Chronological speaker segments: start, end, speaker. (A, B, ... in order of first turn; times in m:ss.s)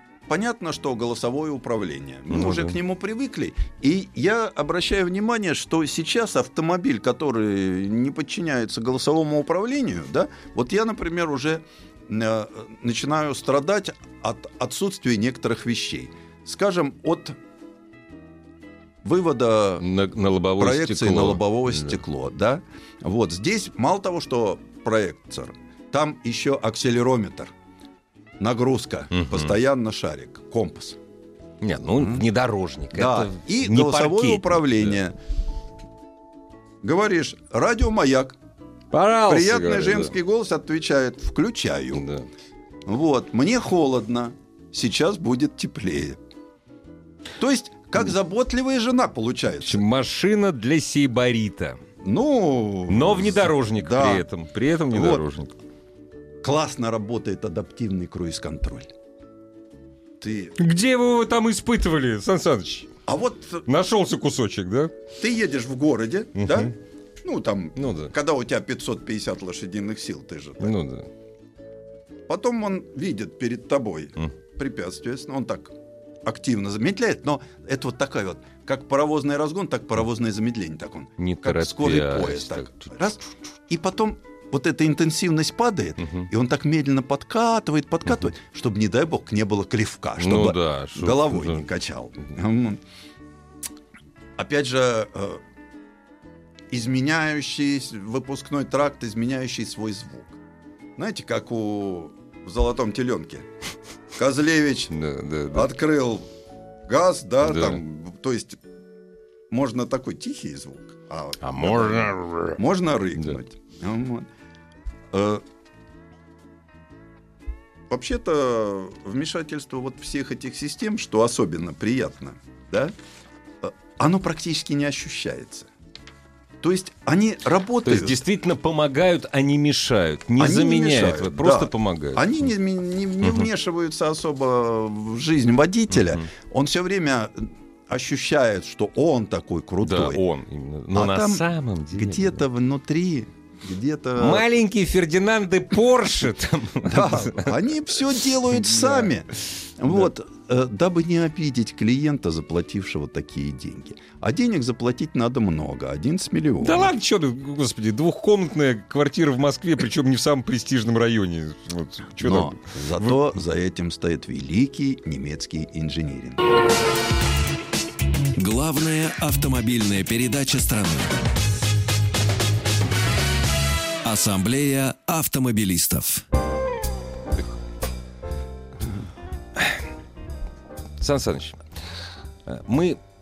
0:00.3-0:17.4 A
0:02.3-0:02.8 B
0:19.0-0:19.8 A
0:19.8-0:22.0 B
0:20.6-0:27.5 A
0:28.4-0:31.0 A
0:29.1-0:29.5 B
0:31.6-0:35.0 B
0:32.0-0:32.2 A
0:32.9-0:35.2 A
0:36.8-0:38.4 A
0:38.9-0:40.1 B
0:39.3-0:42.1 A
0:41.9-0:42.3 B
0:42.8-0:46.2 A
0:47.4-0:49.8 A
0:49.6-0:51.8 B
0:52.0-0:54.2 A
0:52.9-0:55.5 B
0:54.9-0:55.2 A
0:56.4-0:58.9 A
1:00.2-1:00.6 A
1:00.6-1:02.9 B
1:03.0-1:03.6 A
1:03.6-1:04.9 B
1:05.2-1:10.8 A
1:06.4-1:06.7 B
1:07.8-1:08.1 B
1:10.6-1:11.1 B
1:12.3-1:15.7 A
1:16.2-1:32.8 A
1:21.2-1:22.9 B
1:26.0-1:26.3 B
1:30.2-1:31.7 B
1:34.4-1:35.4 A
1:36.7-1:40.4 A
1:41.0-1:43.5 A
1:44.2-1:44.9 A
1:44.9-1:45.7 B
1:45.5-1:46.3 A
1:46.9-1:48.6 A
1:47.4-1:47.8 B
1:49.5-1:54.3 A
1:51.4-1:52.6 B
1:55.1-1:55.4 A
1:57.9-2:02.9 A
2:03.6-2:05.7 A
2:06.6-2:08.2 A
2:07.8-2:12.4 B
2:10.4-2:20.2 A
2:13.2-2:13.5 B
2:15.9-2:16.2 B
2:19.8-2:22.4 B
2:20.9-2:24.4 A
2:24.2-2:27.6 B
2:26.8-2:36.9 A
2:28.5-2:29.1 B
2:36.6-2:43.3 B
2:42.2-2:46.4 A
2:48.4-2:51.2 C
2:54.0-2:56.2 C
3:01.0-3:01.7 B
3:02.4-3:03.0 B